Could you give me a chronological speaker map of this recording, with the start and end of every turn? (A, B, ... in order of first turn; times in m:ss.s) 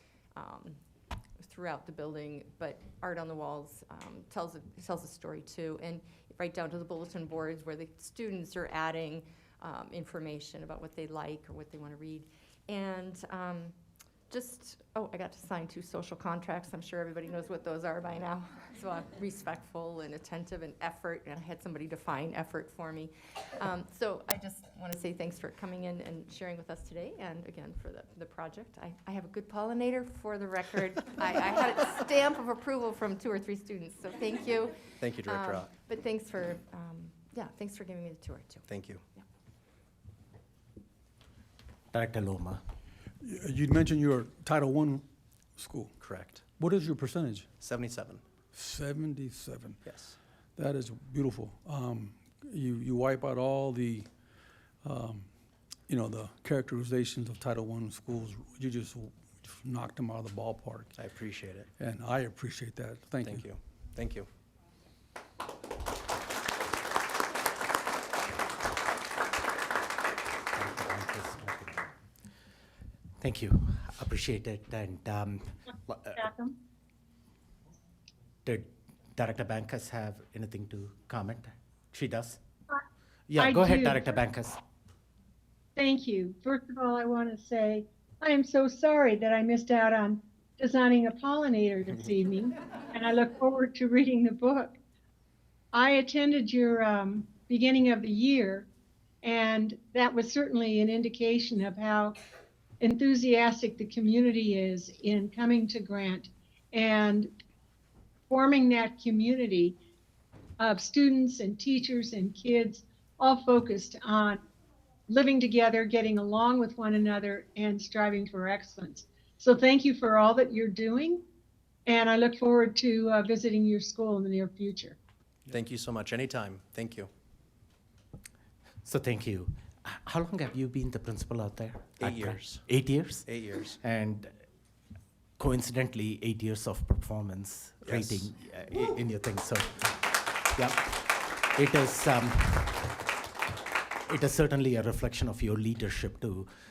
0:00.4-0:00.8 A
0:01.4-0:13.7 A
0:14.3-0:39.2 A
0:35.0-0:35.7 B
0:38.7-0:39.0 B
0:41.9-0:42.6 C
0:43.2-0:45.0 D
0:45.6-0:46.0 D
0:46.0-0:46.4 B
0:46.6-0:47.5 D
0:47.6-0:48.2 B
0:48.5-0:49.8 D
0:49.9-0:50.2 B
0:50.6-0:54.1 D
0:54.8-0:55.3 D
0:55.9-1:01.0 D
1:01.0-1:01.7 B
1:01.8-1:03.5 D
1:03.2-1:04.3 B
1:10.5-1:11.9 C
1:13.2-1:16.2 C
1:16.2-1:16.5 E
1:18.4-1:22.4 C
1:23.3-1:24.6 C
1:23.4-1:24.1 E
1:25.8-1:34.8 E
1:35.7-1:38.7 E
1:39.2-1:42.2 E
1:42.8-1:47.3 E
1:48.3-1:49.8 E
1:50.6-1:54.4 E
1:55.1-2:01.2 E
2:01.8-2:05.0 E
2:05.5-2:07.1 B
2:08.8-2:14.3 C
2:12.0-2:12.7 B
2:13.2-2:13.8 B
2:15.4-2:23.1 C
2:17.8-2:18.3 B
2:24.1-2:26.5 C